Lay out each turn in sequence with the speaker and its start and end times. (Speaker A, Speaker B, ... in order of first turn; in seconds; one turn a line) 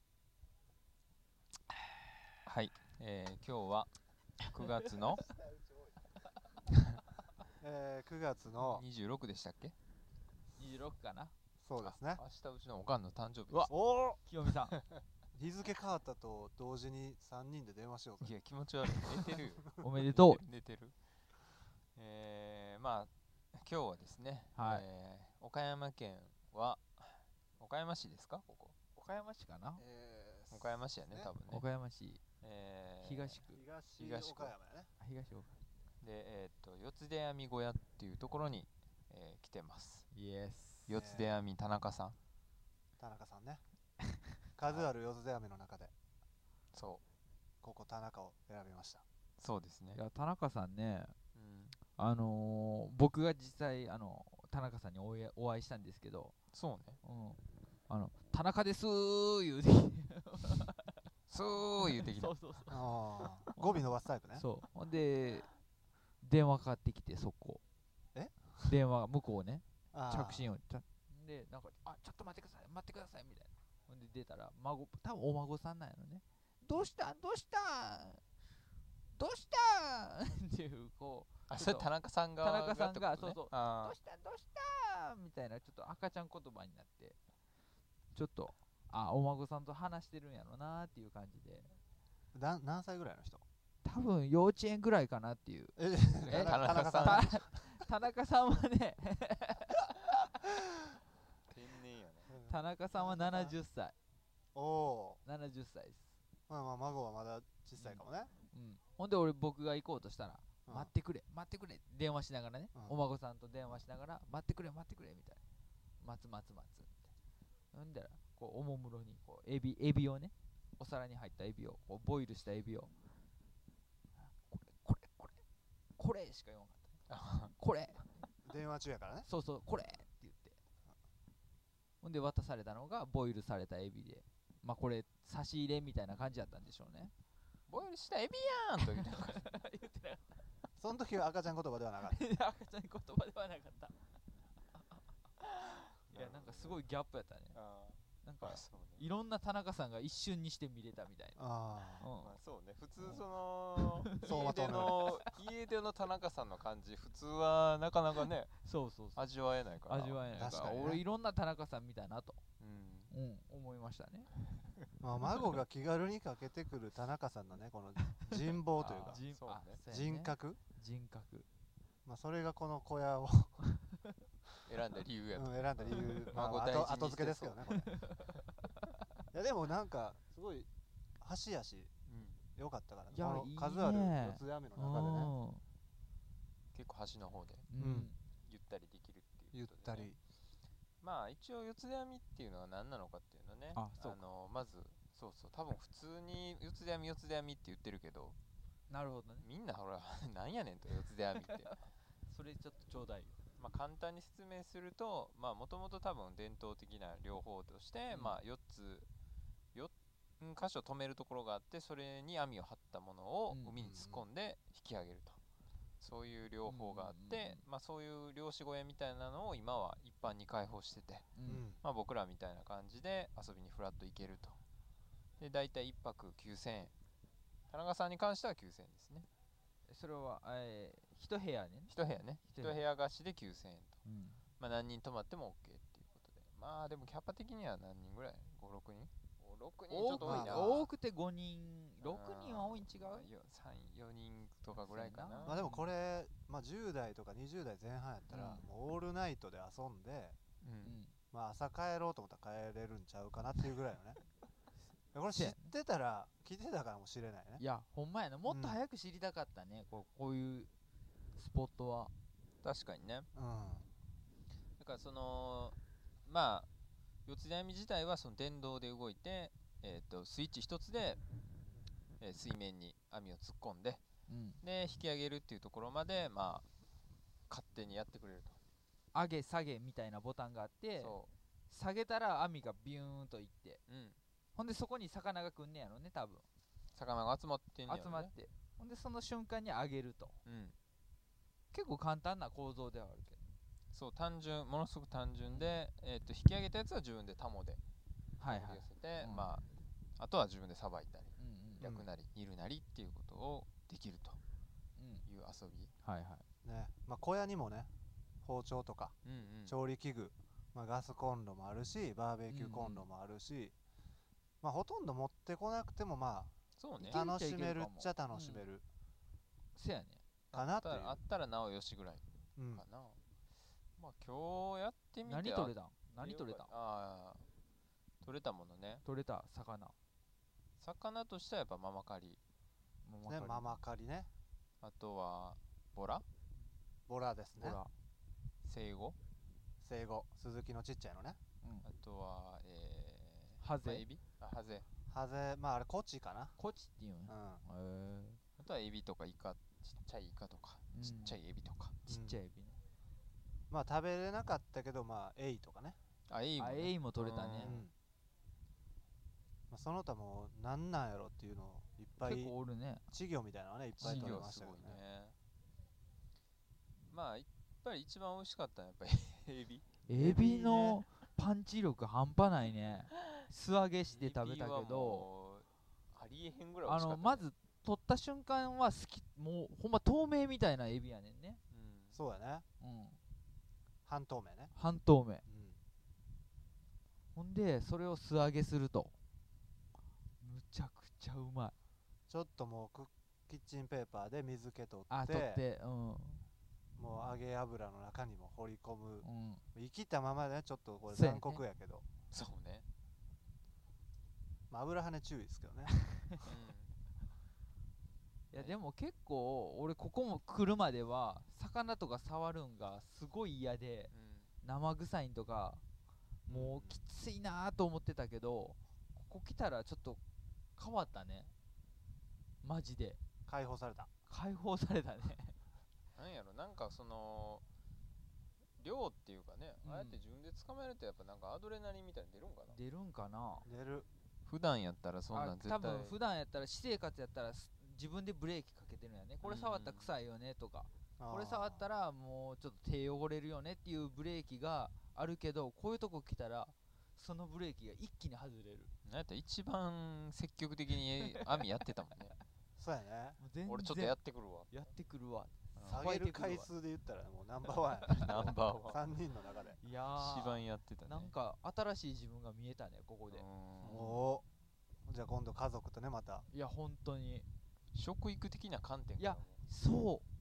Speaker A: 2.4-3.9
Speaker A: 4.5-5.3
Speaker B: 4.8-5.2
Speaker C: 7.6-8.8
Speaker A: 8.6-9.7
Speaker B: 10.6-11.3
Speaker C: 11.6-12.2
Speaker A: 11.8-13.7
Speaker C: 13.7-14.2
Speaker B: 14.2-14.8
Speaker A: 14.7-15.0
Speaker C: 15.3-18.3
Speaker A: 18.2-20.9
Speaker B: 19.8-20.4
Speaker A: 21.9-28.7
Speaker B: 24.5-24.8
Speaker B: 28.9-29.8
Speaker C: 29.8-31.3
Speaker A: 30.5-31.6
Speaker B: 31.5-32.2
Speaker A: 32.4-33.3
Speaker B: 33.0-33.6
Speaker C: 33.5-34.9
Speaker A: 34.0-34.5
Speaker B: 35.0-35.5
Speaker A: 36.0-40.0
Speaker B: 40.1-40.9
Speaker A: 40.9-42.1
Speaker C: 40.9-41.4
Speaker C: 43.0-43.6
Speaker C: 44.6-45.9
Speaker A: 46.7-47.0
Speaker C: 47.6-49.0
Speaker A: 49.4-50.0
Speaker B: 49.9-51.1
Speaker A: 51.3-51.8
Speaker B: 52.0-56.3
Speaker A: 56.5-57.0
Speaker B: 57.0-61.0
Speaker A: 61.3-62.3
Speaker B: 61.8-62.9
Speaker C: 62.7-64.5
Speaker B: 63.5-63.8
Speaker B: 64.3-65.5
Speaker B: 66.2-67.6
Speaker C: 68.1-68.7
Speaker B: 68.6-78.2
Speaker C: 69.9-70.5
Speaker B: 79.2-81.9
Speaker A: 81.5-84.0
Speaker B: 82.4-87.2
Speaker B: 88.1-91.7
Speaker C: 92.3-93.4
Speaker B: 93.8-95.8
Speaker C: 95.8-97.4
Speaker A: 96.3-97.3
Speaker B: 96.3-99.9
Speaker A: 101.5-102.3
Speaker C: 102.3-103.5
Speaker B: 102.5-103.9
Speaker C: 104.5-105.2
Speaker B: 105.2-106.1
Speaker C: 106.5-108.3
Speaker B: 108.5-115.4
Speaker B: 116.0-117.0
Speaker B: 117.7-122.9
Speaker B: 124.2-125.4
Speaker B: 126.0-126.9
Speaker A: 127.1-127.5
Speaker B: 127.6-128.1
Speaker C: 128.4-129.3
Speaker B: 129.2-130.6
Speaker B: 132.0-137.1
Speaker A: 137.7-139.4
Speaker B: 138.9-140.4
Speaker C: 140.8-142.2
Speaker B: 142.0-143.9
Speaker B: 145.4-147.6
Speaker A: 146.1-146.8
Speaker A: 147.5-149.0
Speaker B: 148.2-151.4
Speaker C: 151.4-152.1
Speaker B: 152.0-152.3
Speaker A: 152.2-158.5
Speaker B: 153.8-154.3
Speaker C: 154.2-155.0
Speaker B: 158.6-159.3
Speaker A: 159.2-160.9
Speaker B: 159.9-162.4
Speaker C: 160.3-161.0
Speaker A: 162.6-163.1
Speaker B: 163.1-164.3
Speaker C: 165.0-169.2
Speaker A: 168.8-169.8
Speaker B: 168.8-171.4
Speaker C: 169.9-170.6
Speaker C: 172.0-173.6
Speaker A: 174.6-177.6
Speaker C: 175.3-177.9
Speaker B: 175.9-176.3
Speaker B: 177.8-178.4
Speaker C: 179.3-180.7
Speaker C: 181.2-181.9
Speaker A: 182.1-182.4
Speaker C: 182.6-185.3
Speaker B: 183.1-185.6
Speaker A: 186.7-187.7
Speaker B: 187.7-188.2
Speaker C: 187.8-188.1
Speaker A: 188.4-190.1
Speaker C: 189.5-190.2
Speaker A: 191.0-198.4
Speaker B: 193.7-194.2
Speaker B: 198.9-199.4
Speaker A: 199.4-201.7
Speaker B: 202.3-203.4
Speaker A: 203.6-209.1
Speaker B: 208.1-208.4
Speaker A: 209.7-215.4
Speaker C: 213.8-214.2
Speaker A: 216.0-224.6
Speaker B: 216.6-217.6
Speaker B: 221.3-221.6
Speaker C: 221.4-221.8
Speaker A: 225.4-226.9
Speaker A: 227.7-229.3
Speaker B: 229.9-231.9
Speaker A: 231.9-234.0
Speaker B: 232.5-232.8
Speaker B: 234.0-234.4
Speaker A: 234.6-240.8
Speaker B: 239.9-243.3
Speaker C: 240.2-240.8
Speaker A: 242.0-245.6
Speaker B: 244.8-245.8
Speaker C: 245.4-250.4
Speaker B: 248.3-248.6
Speaker A: 250.6-250.9
Speaker B: 250.8-251.1
Speaker C: 251.3-254.2
Speaker C: 255.1-257.6
Speaker B: 255.3-255.7
Speaker B: 257.6-260.7
Speaker C: 258.5-258.8
Speaker B: 261.4-262.1
Speaker A: 262.6-263.3
Speaker C: 263.3-263.9
Speaker A: 264.8-266.7
Speaker A: 267.2-271.2
Speaker A: 272.2-274.0
Speaker B: 274.3-274.6
Speaker A: 274.6-276.6
Speaker A: 277.5-278.6
Speaker B: 279.1-281.1
Speaker A: 281.0-281.3
Speaker B: 281.7-283.8
Speaker A: 283.9-284.2
Speaker B: 284.6-286.4
Speaker A: 286.9-288.3
Speaker B: 287.9-290.4
Speaker A: 290.4-290.7
Speaker B: 291.7-293.6
Speaker A: 293.9-297.8
Speaker B: 298.4-299.5
Speaker A: 298.4-299.6
Speaker A: 300.2-304.4
Speaker B: 301.4-301.8
Speaker C: 301.8-302.1
Speaker B: 305.0-305.2
Speaker A: 305.2-305.9
Speaker B: 306.0-306.4
Speaker C: 306.6-307.9
Speaker C: 308.4-309.1
Speaker A: 309.2-309.8
Speaker C: 309.6-313.7
Speaker B: 312.5-313.0
Speaker C: 314.6-316.5
Speaker A: 316.8-317.2
Speaker B: 317.0-318.6
Speaker C: 317.0-318.8
Speaker B: 319.7-320.2
Speaker A: 320.5-323.2
Speaker C: 320.5-321.2
Speaker C: 322.6-322.8
Speaker A: 324.0-327.4
Speaker B: 325.2-326.7
Speaker A: 328.2-329.0
Speaker B: 329.0-329.9
Speaker A: 330.8-332.4
Speaker B: 333.0-333.8
Speaker C: 333.2-334.3
Speaker A: 334.8-336.2
Speaker C: 337.1-337.8
Speaker B: 337.6-337.9
Speaker A: 338.6-339.2
Speaker C: 339.8-341.4
Speaker A: 341.8-344.9
Speaker B: 343.6-344.0
Speaker C: 345.1-346.5
Speaker B: 346.6-348.4
Speaker C: 347.3-347.6
Speaker A: 348.6-352.0
Speaker B: 350.9-351.4
Speaker C: 352.1-352.4
Speaker B: 352.1-352.8
Speaker C: 353.7-356.0
Speaker A: 356.3-357.8
Speaker B: 356.6-357.8
Speaker C: 357.6-357.9
Speaker C: 359.7-362.5
Speaker B: 362.2-363.0
Speaker C: 363.1-365.0
Speaker A: 364.0-365.4
Speaker B: 364.0-364.4
Speaker A: 367.1-370.0
Speaker B: 370.1-375.2
Speaker C: 370.1-371.0
Speaker A: 374.1-377.4
Speaker B: 376.9-381.6
Speaker A: 381.7-382.2
Speaker C: 382.1-382.6
Speaker B: 382.8-383.2
Speaker C: 384.1-384.7
Speaker B: 384.7-385.4
Speaker C: 385.5-385.8
Speaker B: 387.3-389.1
Speaker B: 390.4-391.7
Speaker C: 392.3-395.6
Speaker B: 395.1-396.4
Speaker C: 397.0-402.1
Speaker B: 399.2-399.6
Speaker B: 401.1-401.6
Speaker A: 402.3-402.9
Speaker C: 404.7-405.9
Speaker A: 406.4-406.9
Speaker B: 408.5-414.1
Speaker A: 414.1-414.5
Speaker B: 414.6-415.8
Speaker C: 416.5-417.0
Speaker B: 416.5-420.2
Speaker B: 420.8-421.5
Speaker B: 422.6-423.2
Speaker C: 423.5-424.1
Speaker B: 424.3-425.6
Speaker A: 426.1-427.6
Speaker A: 428.8-432.8
Speaker B: 429.8-430.2
Speaker B: 432.7-433.7
Speaker C: 433.6-434.1
Speaker A: 434.5-436.1
Speaker B: 435.3-448.9
Speaker A: 439.4-440.1
Speaker C: 441.2-441.9
Speaker A: 449.0-452.3
Speaker C: 452.8-453.4
Speaker B: 453.4-454.2
Speaker A: 453.7-454.7
Speaker B: 454.7-456.7
Speaker A: 455.8-456.1
Speaker C: 455.9-459.8
Speaker A: 458.1-459.0
Speaker B: 459.8-464.1
Speaker A: 460.1-461.3
Speaker A: 463.3-464.2
Speaker C: 463.8-464.4
Speaker C: 465.1-466.4
Speaker B: 466.5-467.5
Speaker A: 467.9-469.6
Speaker B: 469.2-470.2